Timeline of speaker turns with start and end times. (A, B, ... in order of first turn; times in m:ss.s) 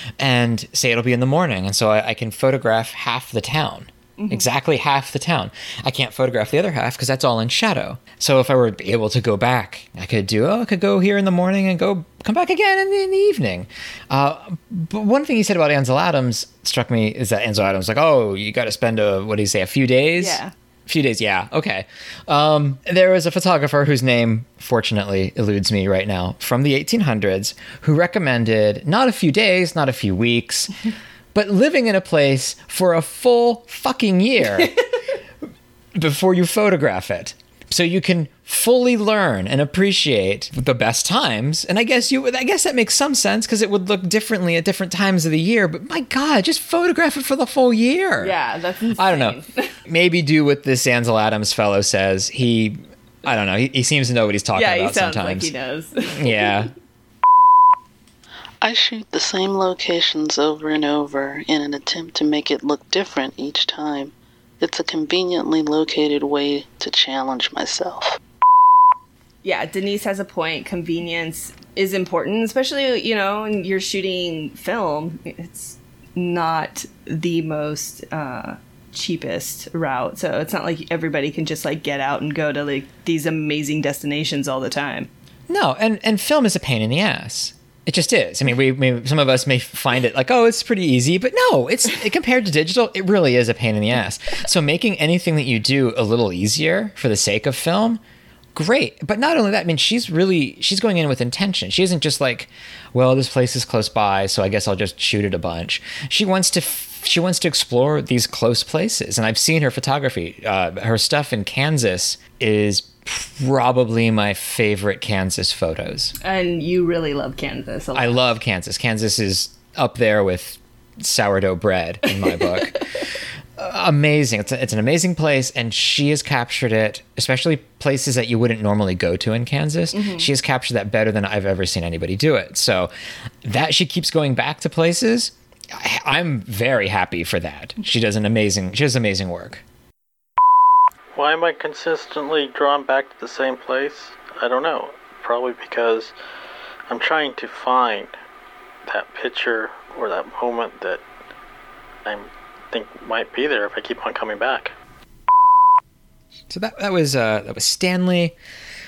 0:00.2-0:30.7 A
0:04.2-0:04.5 B
0:20.2-0:20.5 B
0:31.3-0:34.7 A
0:34.5-0:34.8 B
0:36.0-0:48.3 A
0:48.2-0:49.7 B
0:49.0-0:55.5 A
0:54.6-0:56.7 B
0:56.2-0:56.7 A
0:58.6-1:08.2 C
1:09.4-1:25.1 B
1:25.5-1:38.0 A
1:38.6-1:56.1 A
1:56.2-1:58.2 B
1:58.0-2:02.8 A
2:03.6-2:12.9 A
2:09.9-2:10.3 B
2:13.4-2:19.6 A
2:21.2-2:26.1 D
2:26.9-2:28.2 D
2:28.9-2:31.0 D
2:32.1-2:34.7 D
2:36.5-2:38.4 A